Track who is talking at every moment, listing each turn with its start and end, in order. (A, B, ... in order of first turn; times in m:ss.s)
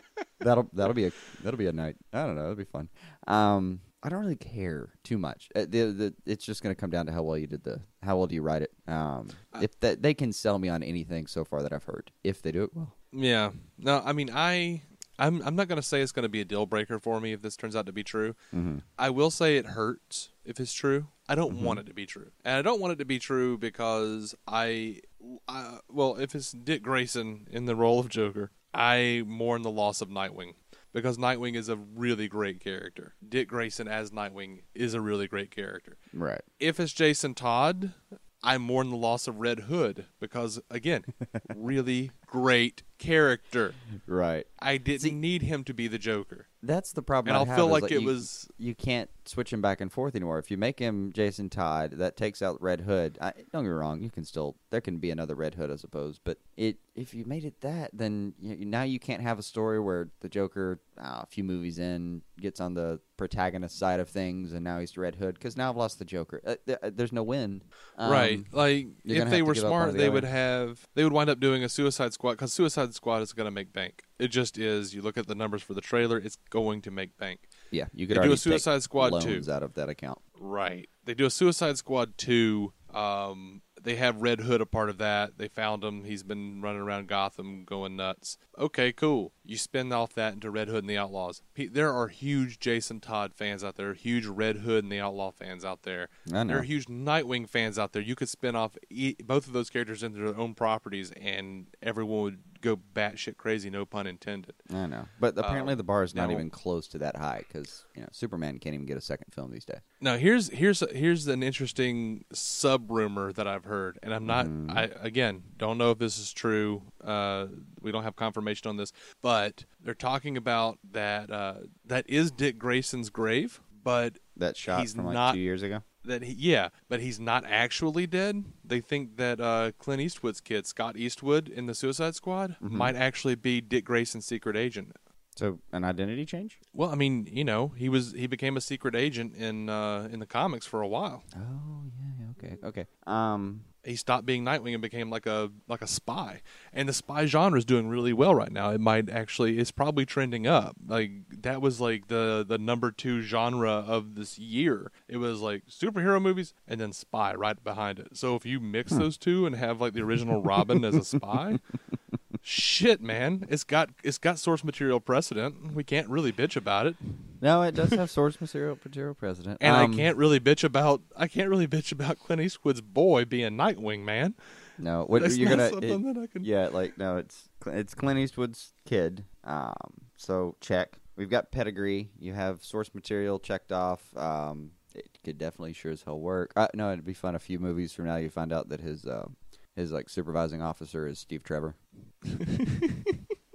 0:00.4-0:12.9 A
0:13.1-0:18.4 B
0:18.5-0:18.8 A
0:19.0-0:36.0 B
0:21.5-0:21.8 A
0:36.1-0:36.4 A
0:36.6-0:43.8 B
0:44.1-0:45.2 A
0:44.6-0:46.5 B
0:46.6-1:10.3 A
0:47.2-0:48.5 B
1:08.0-1:17.5 B
1:17.7-1:20.2 A
1:18.1-1:19.5 B
1:20.4-1:44.6 B
1:36.3-1:36.7 A
1:44.7-1:49.8 A
1:45.4-1:46.5 B
1:50.0-2:05.4 B
1:54.2-1:54.8 A
2:04.4-2:05.8 A
2:06.0-2:15.0 B
2:12.6-2:12.9 A
2:15.4-2:16.6 A
2:16.7-2:21.3 B
2:21.3-2:23.7 A
2:23.8-2:41.6 B
2:42.4-2:47.0 B
2:47.4-2:50.1 A
2:49.6-2:54.4 B
2:54.8-3:11.8 A
2:55.2-2:56.5 B
3:12.3-3:13.1 B